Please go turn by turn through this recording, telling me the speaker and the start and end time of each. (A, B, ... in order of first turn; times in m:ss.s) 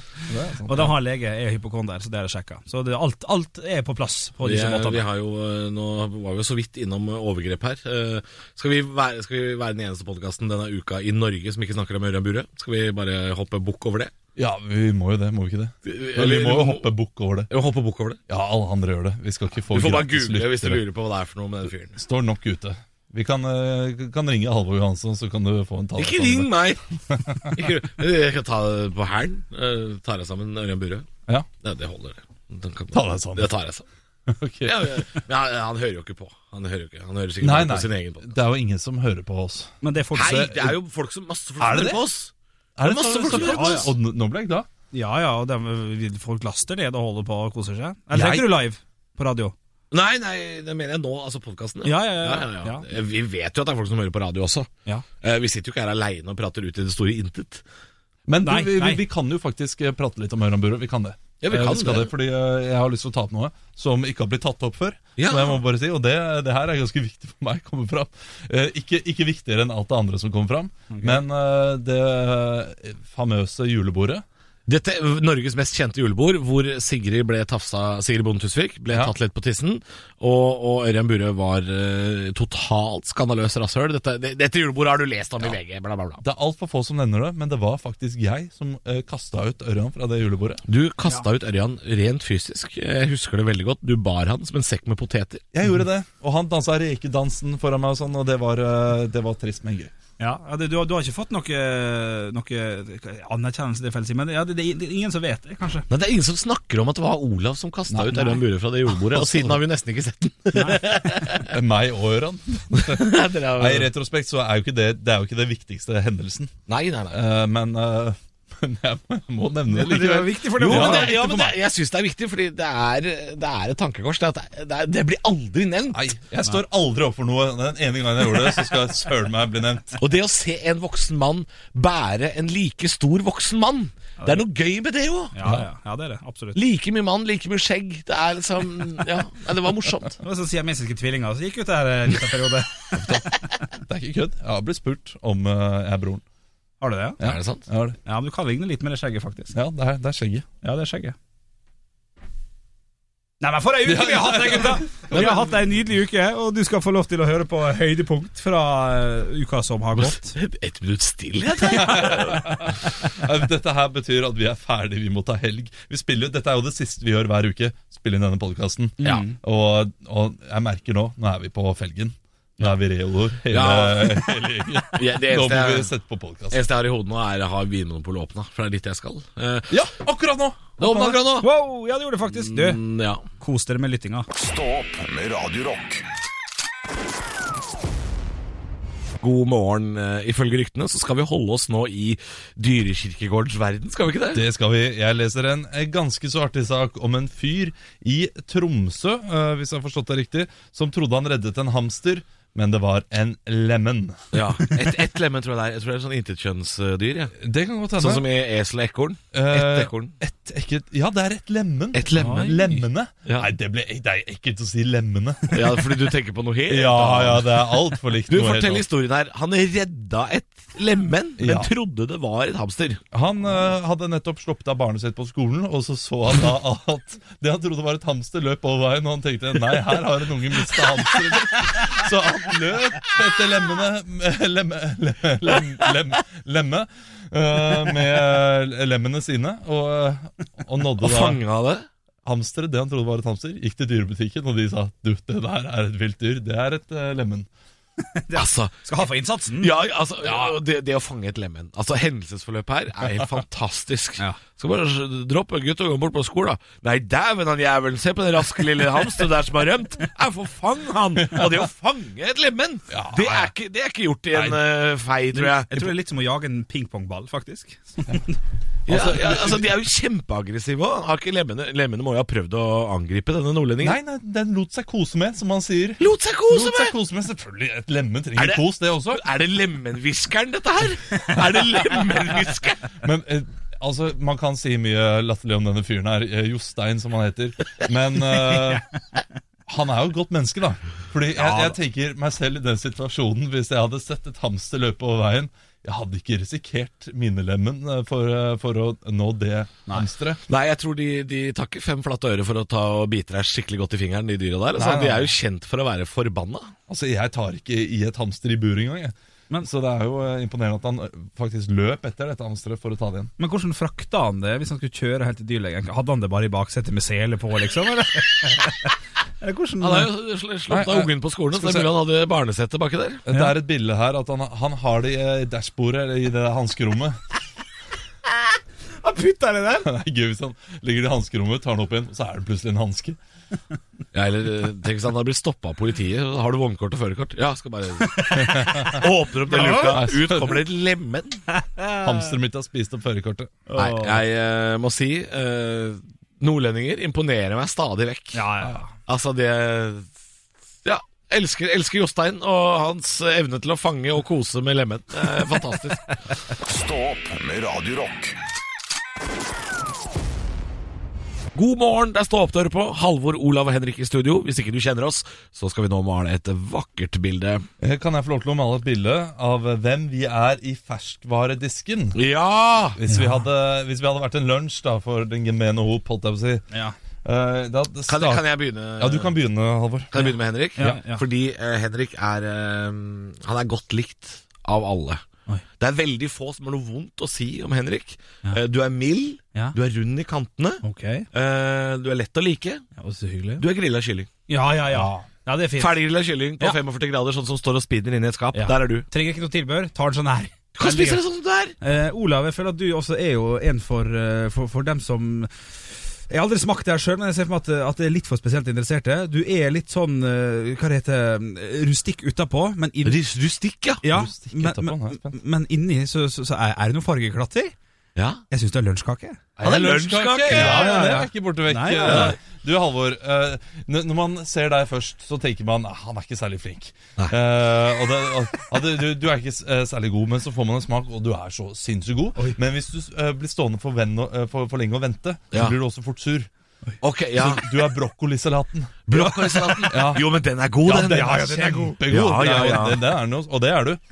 0:00.3-0:00.9 A
0:00.7-0:05.0 B
0:04.4-0:14.1 C
0:14.4-0:17.5 A
0:15.8-0:16.9 C
0:17.5-0:18.2 C
0:18.3-0:20.8 A
0:19.7-0:22.0 C
0:22.0-0:27.7 A
0:26.0-0:26.8 C
0:27.5-0:31.1 C
0:31.6-0:33.8 C
0:32.9-0:33.5 A
0:34.3-0:35.0 A
0:34.6-0:38.4 C
0:37.4-0:40.8 A
0:39.8-0:40.5 B
0:40.1-0:42.3 C
0:41.6-0:42.0 A
0:42.8-0:44.7 A
0:42.8-0:43.9 C
0:43.3-0:43.9 B
0:44.9-0:49.5 B
0:48.1-0:48.5 A
0:49.9-0:54.7 C
0:51.8-0:52.8 B
0:55.2-0:57.6 C
0:58.3-1:14.2 A
0:58.4-0:59.0 B
1:01.4-1:02.1 C
1:05.2-1:05.6 C
1:10.9-1:11.2 B
1:14.6-1:26.2 C
1:26.2-1:30.6 A
1:30.7-1:35.4 C
1:35.5-1:39.9 A
1:40.2-1:45.8 B
1:45.9-1:51.5 C
1:47.9-1:48.4 A
1:49.0-1:49.6 A
1:50.5-1:50.8 B
1:51.4-1:56.5 A
1:52.8-1:53.9 C
1:56.7-1:57.2 C
1:57.1-2:01.6 A
1:59.7-2:01.3 B
2:00.6-2:06.1 C
2:05.9-2:10.0 A
2:10.0-2:15.3 C
2:15.3-2:16.6 B
2:16.5-2:20.2 C
2:20.2-2:23.3 B
2:23.0-2:26.2 A
2:26.8-2:27.2 B
2:27.2-2:28.0 A
2:27.2-2:27.6 C
2:28.0-2:29.6 B
2:29.5-2:30.4 A
2:30.6-2:31.2 B
2:33.4-2:40.4 B
2:33.8-2:35.5 A
2:40.0-2:42.8 C
2:41.6-2:56.6 A
2:49.0-2:49.4 B
2:53.5-2:54.3 C
2:54.9-2:55.9 C
2:56.5-2:59.8 C
2:59.7-3:01.2 A
3:00.8-3:01.5 C
3:01.3-3:02.8 B
3:02.3-3:03.2 C
3:03.4-3:04.3 B
3:04.3-3:06.0 D
3:09.2-3:14.4 C
3:14.3-3:24.2 A
3:24.3-3:27.4 C
3:27.4-3:28.2 A
3:28.0-3:30.1 C
3:29.3-3:35.8 A
3:31.9-3:33.5 C
3:32.2-3:32.6 B
3:35.5-3:43.0 C
3:36.7-3:38.8 A
3:41.4-3:41.7 A
3:43.1-4:01.4 A
4:01.0-4:01.8 C
4:02.2-4:07.5 A
4:08.1-4:09.7 B
4:08.3-4:08.8 C
4:09.6-4:25.9 C
4:22.9-4:23.5 A
4:24.3-4:24.6 A
4:25.3-4:28.4 B
4:28.9-4:29.7 A
4:28.9-4:34.0 C
4:33.8-4:39.2 A
4:36.0-4:36.9 C
4:38.4-4:42.9 C
4:43.0-4:48.8 A
4:49.7-5:00.4 A
4:51.4-4:51.8 B
5:00.5-5:06.7 C
5:04.8-5:05.3 A
5:06.9-5:13.3 A
5:13.4-5:20.1 B
5:19.8-5:23.2 C
5:20.7-5:21.9 A
5:23.3-5:27.2 A
5:29.0-5:29.9 B
5:29.8-5:33.2 A
5:34.1-5:41.4 C
5:38.0-5:40.0 B
5:38.4-5:39.0 A
5:39.6-5:40.6 A
5:41.5-5:42.2 B
5:42.0-5:43.6 A
5:43.7-5:44.2 B
5:43.8-5:48.4 C
5:48.3-5:48.9 B
5:49.0-5:50.1 C
5:50.8-5:56.1 C
5:56.6-5:58.3 D
6:01.5-6:07.7 C
6:07.8-6:12.2 A
6:12.1-6:13.0 C
6:12.9-6:16.6 A
6:13.1-6:13.4 B
6:17.2-6:20.1 A
6:18.1-6:19.4 C
6:20.1-6:25.2 C
6:20.2-6:21.2 B
6:25.8-6:30.8 C
6:30.8-6:31.3 B
6:31.3-6:32.8 C
6:33.0-6:33.6 B
6:33.6-6:34.3 C
6:34.5-6:36.0 B
6:34.9-6:35.2 A
6:35.8-6:39.1 C
6:38.5-6:41.2 B
6:40.8-6:41.7 C
6:41.8-6:45.5 B
6:46.3-6:53.2 B
6:53.0-6:54.0 C
6:54.0-6:57.7 B
6:54.1-6:55.4 A
6:58.2-6:58.4 C
6:58.5-6:59.4 B
6:59.6-7:16.5 A
6:59.6-7:01.2 C
7:00.5-7:02.3 B
7:02.0-7:02.4 C
7:17.0-7:17.6 C
7:17.4-7:19.2 A
7:19.1-7:23.0 C
7:19.1-7:20.1 B
7:19.8-7:24.0 A
7:20.9-7:22.0 B